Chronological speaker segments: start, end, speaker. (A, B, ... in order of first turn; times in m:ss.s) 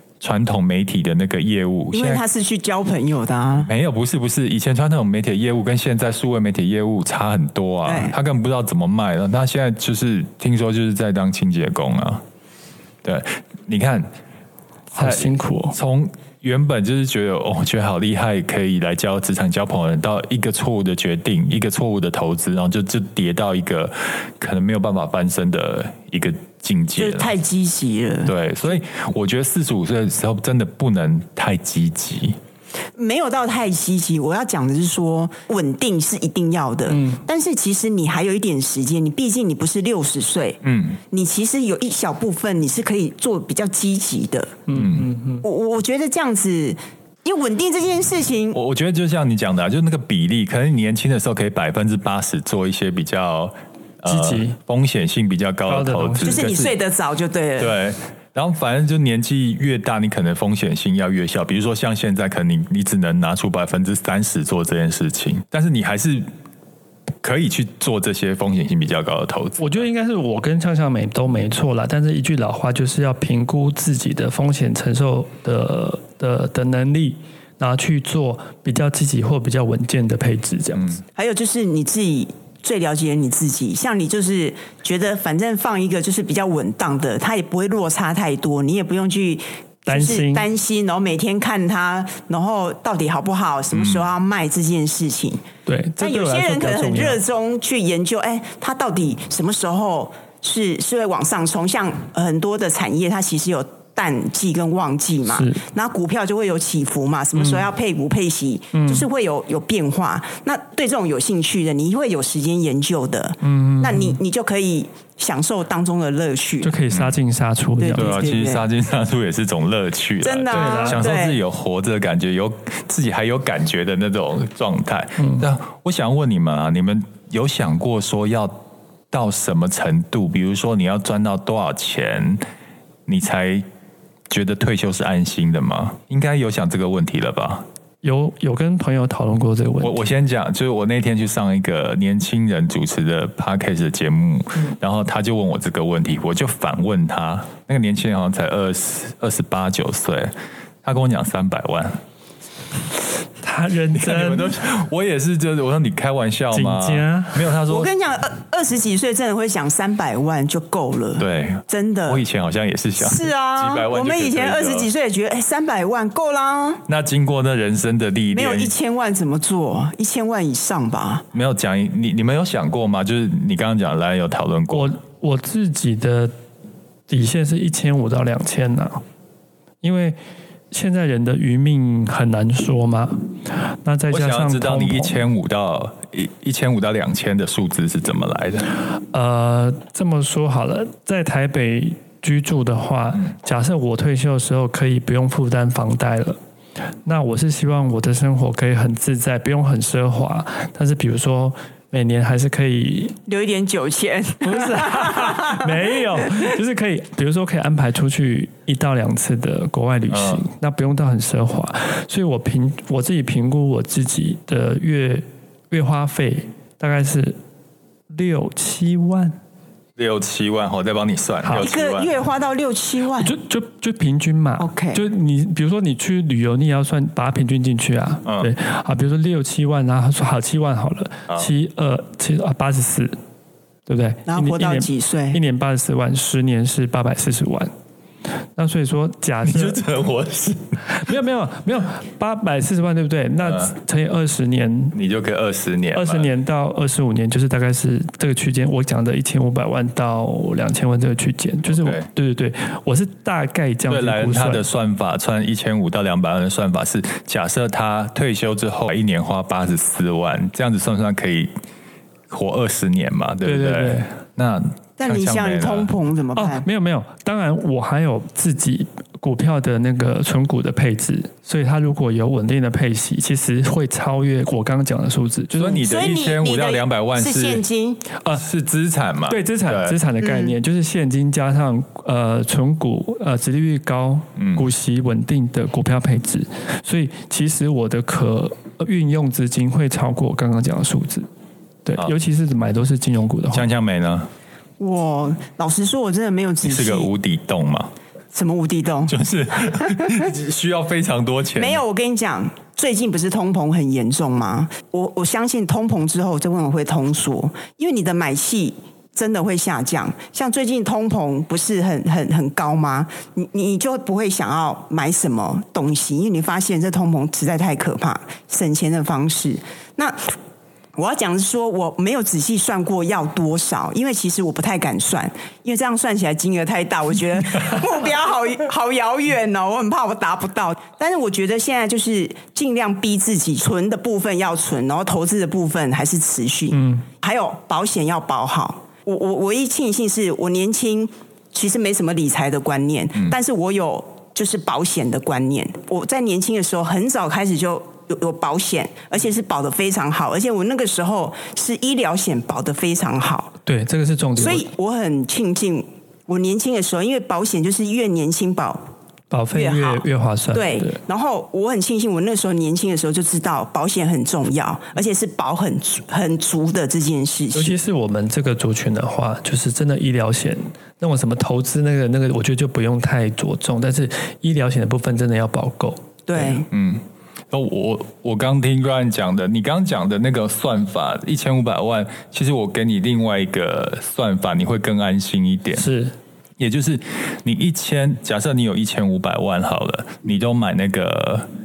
0:00.2-0:02.2 A
0:01.9-0:03.7 B
0:03.6-0:12.2 A
0:07.8-0:08.1 B
0:13.0-0:14.1 A
0:14.9-0:15.8 C
0:14.9-0:27.3 A
0:27.0-0:28.3 B
0:28.2-0:32.4 A
0:33.0-0:44.6 B
0:36.9-0:37.2 C
0:40.6-0:41.0 A
0:44.7-0:45.4 C
0:44.7-0:45.1 A
0:45.4-0:48.6 B
0:48.5-0:56.7 A
0:54.1-0:54.6 C
0:55.7-0:56.5 C
0:56.2-0:57.8 B
0:57.6-1:06.2 A
1:07.2-1:09.8 A
1:09.6-1:21.0 C
1:20.7-1:21.0 A
1:21.1-1:35.4 B
1:29.9-1:30.4 C
1:33.7-1:34.1 A
1:35.6-1:37.2 C
1:36.0-1:56.8 B
1:45.3-1:45.6 C
1:47.4-1:47.6 C
1:48.7-1:49.0 C
1:53.4-1:54.2 C
1:56.6-1:58.3 C
1:56.9-1:57.2 A
1:57.8-1:58.6 B
1:57.9-2:08.6 A
2:00.2-2:01.4 B
2:00.5-2:01.0 C
2:05.2-2:05.4 C
2:09.1-2:12.4 A
2:13.1-2:13.6 A
2:14.3-2:17.6 A
2:18.0-2:20.0 C
2:19.8-2:30.3 A
2:30.8-2:31.9 A
2:33.4-2:34.5 C
2:33.9-2:37.9 A
2:36.5-2:37.5 C
2:37.7-2:42.2 B
2:41.2-2:44.9 A
2:43.0-2:46.8 B
2:46.9-2:48.7 A
2:48.3-2:51.2 B
2:51.3-2:54.9 A
2:54.7-2:56.3 C
2:57.1-2:59.0 C
2:59.8-3:00.2 C
3:00.7-3:05.2 C
3:04.1-3:08.7 A
3:08.9-3:16.4 C
3:17.0-3:23.2 C
3:23.3-3:25.7 B
3:24.4-3:37.4 C
3:30.1-3:30.4 A
3:38.1-3:39.4 C
3:40.0-3:42.1 A
3:41.5-3:43.3 B
3:43.2-3:53.2 C
3:44.6-3:45.0 B
3:48.2-3:48.5 A
3:53.9-3:57.7 C
3:54.3-3:55.4 B
3:58.6-3:59.8 C
3:59.4-4:00.8 A
4:00.9-4:05.0 C
4:03.4-4:03.7 A
4:04.9-4:06.3 A
4:05.9-4:14.6 C
4:11.6-4:12.1 A
4:13.9-4:21.5 A
4:22.3-4:25.9 A
4:23.4-4:24.1 C
4:25.0-4:26.6 B
4:26.3-4:35.8 C
4:35.6-4:37.6 A
4:35.8-4:38.0 B
4:38.3-4:40.0 A
4:39.3-4:51.3 C
4:40.2-4:40.6 B
4:44.4-4:44.6 A
4:51.8-4:53.6 C
4:53.5-4:54.3 A
4:54.8-4:57.1 B
4:56.6-4:57.9 A
4:58.3-5:00.3 B
4:59.1-5:01.8 A
5:01.6-5:20.3 B
5:21.0-5:53.5 B
5:36.7-5:37.0 C
5:53.6-5:54.6 C
5:54.4-5:58.8 B
5:59.3-6:01.0 C
5:59.5-6:07.8 B
6:07.5-6:16.0 C
6:16.3-6:16.7 B
6:16.3-6:25.9 A
6:25.7-6:26.1 C
6:26.6-6:31.4 A